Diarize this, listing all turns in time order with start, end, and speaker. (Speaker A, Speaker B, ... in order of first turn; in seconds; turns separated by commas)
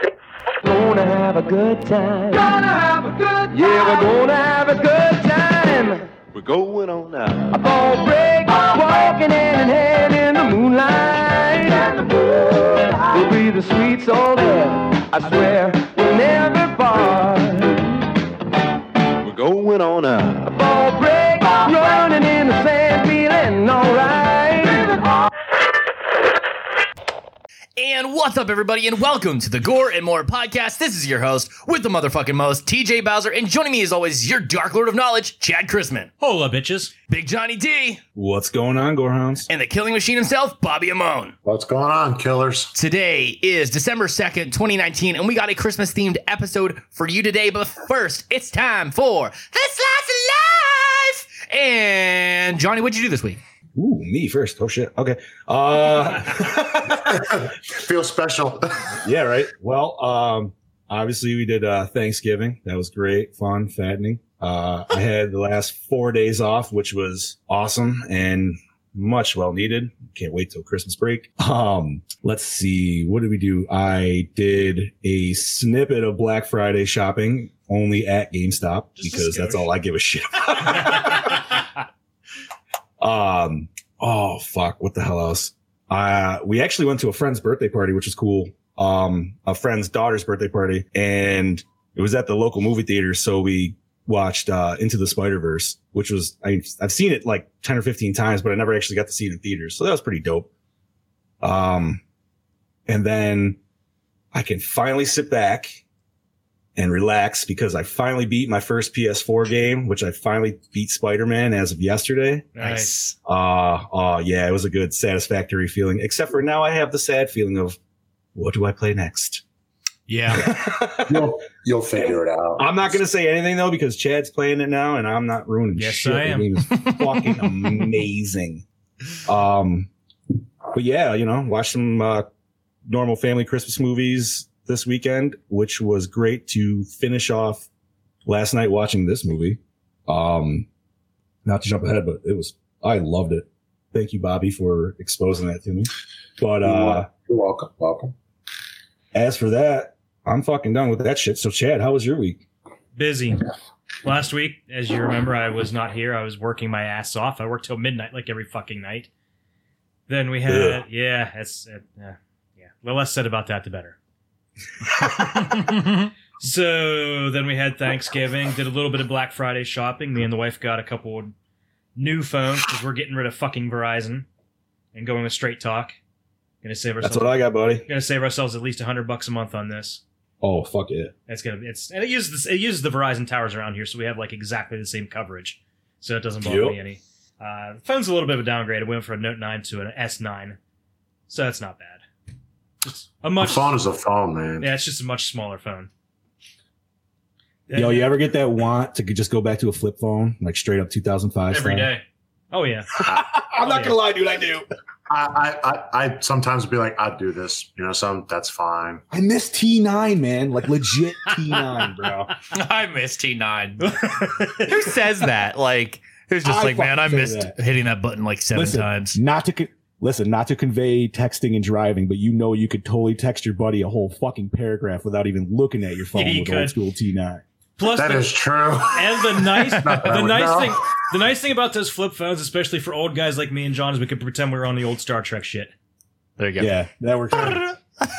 Speaker A: 0.6-2.7, Speaker A: 3.4-6.1, Speaker B: 6.3-7.5, Speaker A: 7.5-17.9, Speaker B: 19.2-20.5, Speaker A: 20.5-25.2, Speaker C: 27.8-36.1, Speaker D: 36.2-36.9, Speaker C: 37.1-38.0, Speaker E: 38.1-39.5, Speaker C: 39.5-41.3, Speaker F: 41.4-42.7, Speaker C: 42.7-53.4, Speaker E: 53.7-57.0, Speaker F: 57.0-59.0, Speaker E: 59.0-81.5, Speaker D: 79.0-79.7, Speaker E: 83.0-100.5, Speaker E: 101.4-102.0, Speaker E: 102.9-103.6, Speaker E: 104.3-105.8, Speaker E: 106.8-112.5, Speaker D: 112.5-112.9, Speaker C: 112.6-113.2, Speaker E: 113.2-117.8, Speaker E: 118.3-119.4, Speaker C: 120.1-120.6, Speaker E: 120.3-121.2, Speaker F: 121.0-123.0, Speaker E: 122.6-128.6, Speaker D: 125.8-126.5, Speaker C: 126.7-127.8, Speaker E: 129.2-129.9, Speaker E: 130.7-132.3, Speaker E: 132.8-137.7, Speaker E: 138.2-140.7, Speaker E: 141.4-147.1, Speaker F: 146.6-148.1, Speaker E: 149.1-152.4, Speaker D: 152.9-153.4, Speaker D: 154.0-159.1, Speaker D: 160.1-163.9, Speaker E: 160.4-160.8, Speaker C: 165.2-166.1, Speaker D: 166.4-171.3, Speaker D: 171.9-174.2, Speaker D: 174.9-175.9, Speaker D: 176.6-180.0, Speaker E: 177.0-177.8, Speaker E: 180.4-181.1, Speaker D: 181.3-190.6, Speaker E: 186.4-186.8, Speaker D: 191.3-192.0, Speaker D: 192.8-193.8, Speaker F: 193.4-194.7, Speaker D: 194.6-195.9, Speaker D: 197.7-198.1, Speaker E: 197.7-201.9, Speaker D: 201.5-202.9, Speaker E: 203.0-204.7, Speaker D: 203.6-203.9, Speaker F: 205.1-209.0, Speaker E: 209.1-212.3, Speaker C: 212.5-213.9, Speaker D: 213.8-214.7, Speaker C: 214.6-219.2, Speaker E: 216.4-217.6, Speaker E: 218.5-227.4, Speaker D: 226.1-226.7, Speaker D: 227.8-228.3, Speaker F: 227.8-230.8, Speaker D: 228.9-235.7, Speaker C: 236.4-236.7, Speaker E: 236.6-237.7